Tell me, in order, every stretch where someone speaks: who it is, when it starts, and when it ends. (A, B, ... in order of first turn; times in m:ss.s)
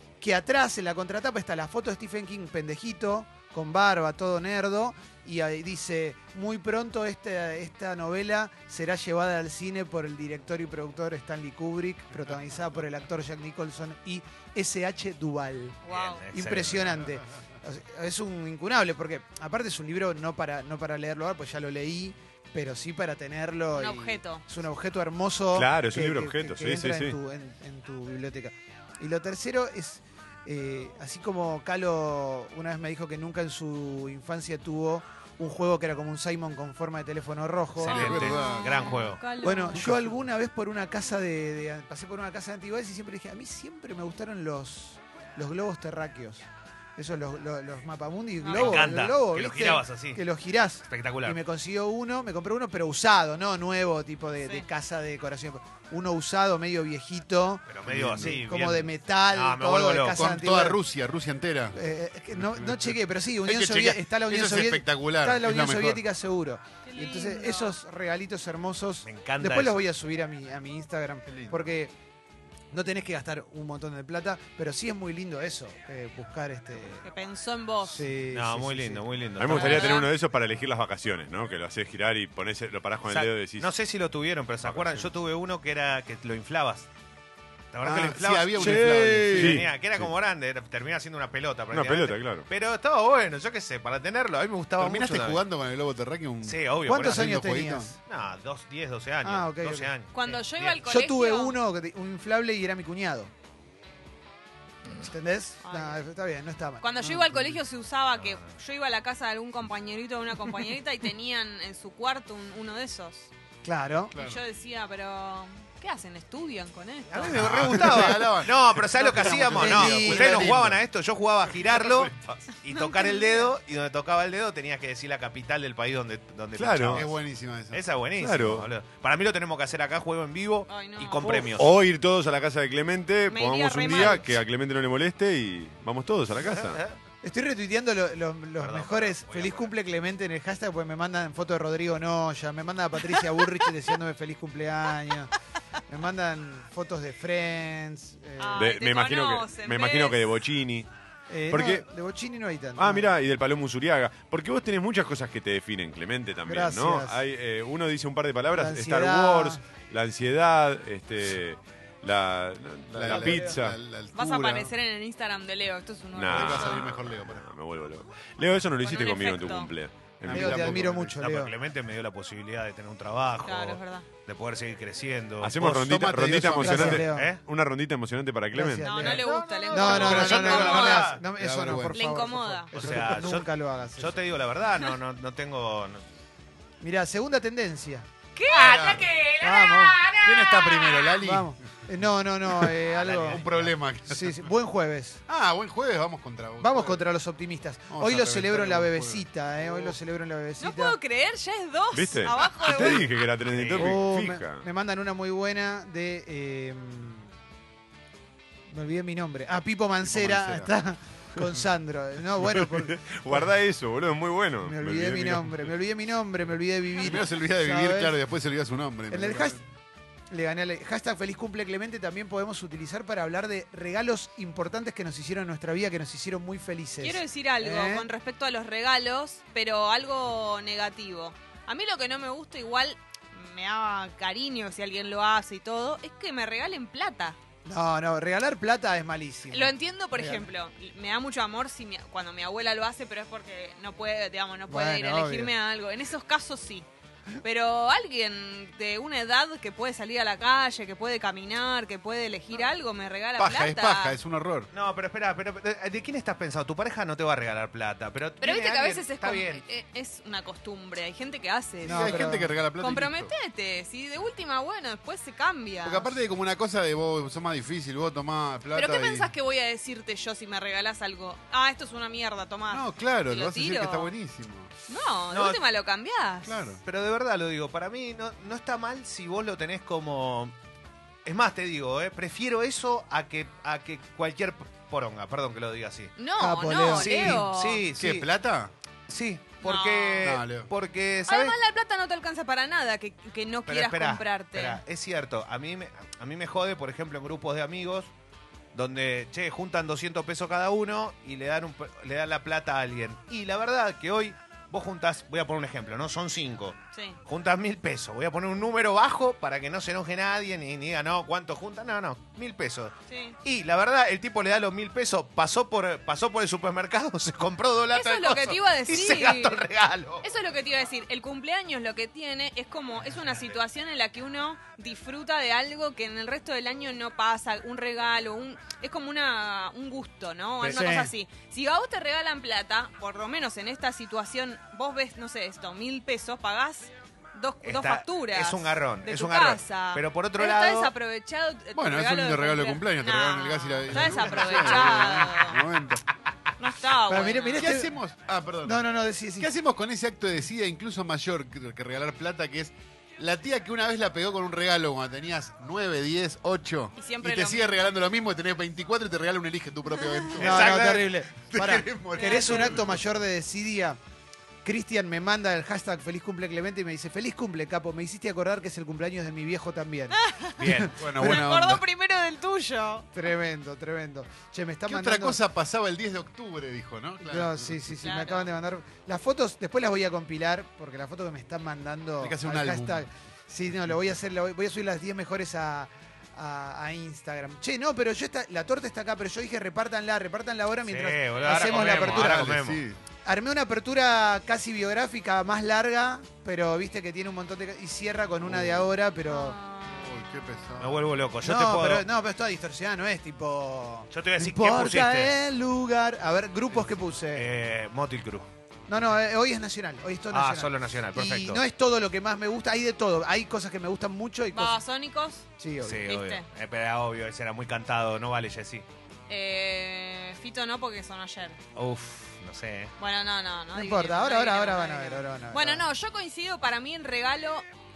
0:00.2-0:15.8 A
0:15.8-0:16.2 B
0:15.9-0:17.0 C
0:16.3-0:38.3 A
0:23.7-0:24.4 B
0:25.5-0:27.1 D
0:37.8-0:39.2 C
0:37.8-0:38.6 E
0:38.0-0:39.8 B
0:39.4-0:46.4 A
0:47.0-1:00.8 A
0:48.4-0:48.9 B
0:48.5-0:50.2 C
0:50.9-0:51.4 C
0:57.7-1:00.3 C
0:57.9-0:58.4 E
1:00.1-1:01.8 E
1:01.7-1:11.9 A
1:02.4-1:02.8 E
1:03.5-1:06.0 E
1:06.8-1:07.8 B
1:09.0-1:09.9 C
1:11.3-1:11.7 E
1:12.7-1:17.0 A
1:17.0-1:18.0 B
1:17.8-1:19.0 A
1:18.3-1:20.0 C
1:19.4-1:23.7 D
1:19.5-1:20.1 B
1:23.0-1:26.9 C
1:24.6-1:25.0 D
1:27.7-1:35.4 C
1:27.8-1:29.4 A
1:27.9-1:29.7 E
1:29.3-1:29.7 D
1:31.7-1:32.4 D
1:34.8-1:37.9 E
1:36.4-1:37.3 C
1:36.9-1:37.9 A
1:38.0-1:40.8 C
1:39.2-1:39.9 A
1:40.1-1:41.6 B
1:40.8-1:43.3 A
1:44.9-1:47.5 A
1:45.6-1:46.0 B
1:46.8-1:53.3 B
1:53.6-1:54.1 A
1:54.1-1:54.4 E
1:54.1-1:57.7 B
1:57.1-2:07.1 C
1:57.3-2:00.8 E
1:57.7-1:58.2 A
1:59.2-2:00.6 A
2:01.7-2:02.1 E
2:02.7-2:03.5 B
2:06.6-2:07.1 D
2:06.9-2:07.8 E
2:07.7-2:11.7 C
2:08.2-2:08.7 D
2:10.7-2:11.2 B
2:11.2-2:16.8 D
2:13.3-2:14.3 B
2:13.9-2:14.2 A
2:16.4-2:17.0 C
2:17.2-2:25.3 A
2:18.6-2:19.7 C
2:25.9-2:28.7 A
2:28.4-2:30.2 B
2:28.5-2:30.9 D
2:31.3-2:33.1 A
2:31.5-2:31.8 D
2:32.8-2:43.8 D
2:36.4-2:37.2 A
2:38.5-2:39.6 A
2:42.9-2:44.7 E
2:43.1-2:43.4 A
2:44.1-2:46.9 B
2:46.1-2:50.9 D
2:46.3-2:47.4 E
2:48.8-2:49.7 B
2:50.3-2:51.5 A
2:50.3-2:51.1 E
2:51.2-2:56.0 C
2:53.4-2:54.0 B
2:55.4-2:59.1 D
2:55.6-2:57.0 E
2:56.6-2:57.3 A
2:56.9-2:57.4 C
2:58.5-3:04.2 A
2:58.8-3:01.0 B
2:59.0-3:01.2 C
2:59.8-3:02.0 E
3:01.9-3:02.8 B
3:02.7-3:06.0 C
3:06.8-3:08.1 A
3:08.4-3:11.0 B
3:08.5-3:09.1 E
3:08.7-3:09.1 C
3:09.4-3:10.0 A
3:10.2-3:11.5 E
3:11.1-3:13.4 A
3:12.9-3:13.8 C
3:13.2-3:14.4 E
3:14.1-3:15.2 A
3:15.3-3:17.0 E
3:16.6-3:21.0 A
3:17.9-3:20.0 E
3:20.6-3:23.0 B
3:21.9-3:24.6 D
3:23.4-3:24.0 C
3:23.7-3:27.3 A
3:28.7-3:33.5 A
3:30.0-3:30.7 E
3:32.5-3:35.6 D
3:34.6-3:38.2 A
3:37.0-3:39.6 E
3:39.1-3:39.6 A
3:40.3-3:48.1 A
3:47.0-3:57.4 B
3:57.6-4:00.5 A
3:59.5-4:06.9 B
4:04.7-4:05.5 A
4:07.4-4:14.1 B
4:13.4-4:14.7 E
4:14.7-4:19.6 C
4:18.4-4:26.1 B
4:21.8-4:23.3 E
4:21.8-4:22.5 A
4:25.8-4:29.3 E
4:28.7-4:34.1 B
4:32.7-4:34.7 E
4:34.9-4:36.6 B
4:35.3-4:35.6 C
4:36.4-4:36.8 E
4:36.8-4:40.5 C
4:41.2-4:46.1 C
4:46.2-4:47.8 B
4:46.4-4:47.4 A
4:46.9-4:48.3 C
4:47.9-4:48.7 E
4:49.1-4:51.6 C
4:49.6-4:50.4 B
4:50.2-4:50.7 E
4:51.3-4:54.8 B
4:53.7-4:58.1 C
4:58.7-5:20.3 C
5:06.9-5:07.2 B
5:13.1-5:13.4 B
5:17.9-5:19.6 B
5:20.2-5:45.6 B
5:30.6-5:31.1 A
5:37.6-5:40.9 C
5:41.8-5:46.0 E
5:43.9-5:45.0 C
5:46.6-5:47.7 B
5:47.1-5:48.0 A
5:47.6-5:48.8 E
5:48.6-5:49.5 A
5:49.4-6:02.9 E
5:57.0-5:57.7 B
6:00.4-6:04.0 A
6:00.4-6:01.1 C
6:02.2-6:02.8 B
6:04.6-6:11.4 A
6:10.2-6:10.6 B
6:10.6-6:10.9 C
6:10.9-6:11.8 E
6:11.2-6:13.1 B
6:13.1-6:15.4 A
6:14.8-6:17.9 E
6:17.2-6:32.4 A
6:18.0-6:18.5 B
6:22.2-6:23.0 E
6:30.9-6:32.8 C
6:31.7-6:33.0 E
6:33.2-6:39.6 A
6:38.4-6:38.9 E
6:39.2-6:40.0 B
6:39.8-6:41.1 E
6:40.8-6:42.0 C
6:41.4-6:47.5 A
6:44.1-6:45.3 C
6:47.3-6:48.5 C
6:48.9-6:54.8 A
6:50.3-6:51.6 C
6:54.5-6:55.4 B
6:55.6-6:56.1 A
6:55.8-6:58.8 C
6:56.0-6:56.4 B
6:59.3-7:01.6 B
7:01.8-7:02.9 C
7:03.0-7:07.6 B
7:03.7-7:05.8 A